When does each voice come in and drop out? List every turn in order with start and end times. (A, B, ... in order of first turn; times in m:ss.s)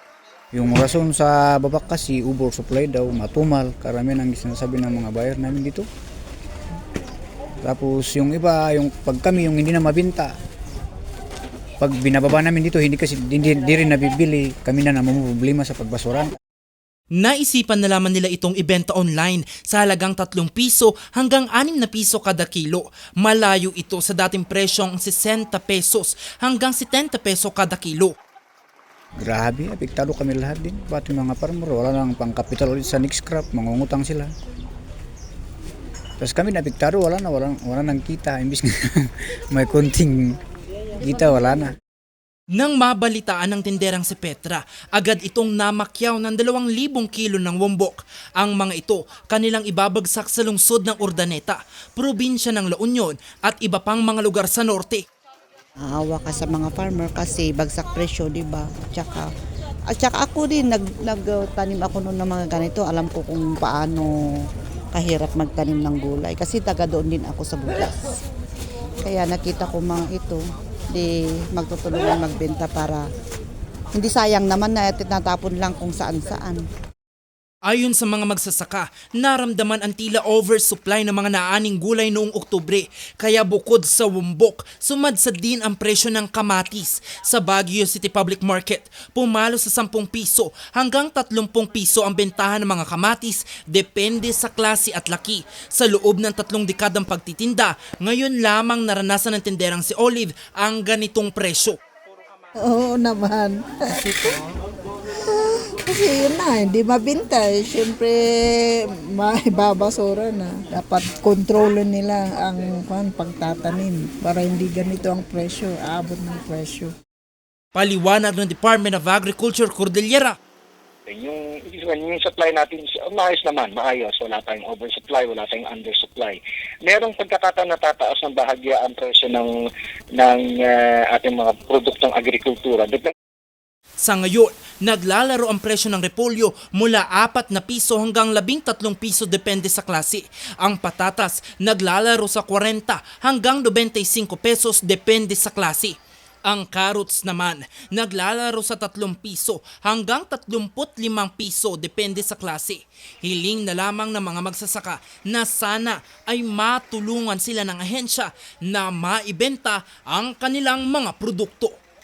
0:00.5-0:05.8 A
0:07.6-0:10.3 A
0:11.8-0:16.3 A
0:17.1-0:28.1 B
0:29.2-0:34.3 A
0:36.2-0:40.4 A
0:41.0-0:41.7 A
0:42.5-0:55.0 B
0:55.8-0:59.3 C
0:59.9-1:04.1 C
1:04.9-1:08.2 C
1:09.0-1:10.4 C
1:10.9-1:13.0 C
1:14.0-1:16.6 C
1:17.6-1:41.8 B
1:42.6-1:44.5 D
1:45.2-1:56.9 D
1:57.7-2:00.4 B
2:01.1-2:09.6 E
2:10.1-2:13.1 E
2:14.0-2:41.8 B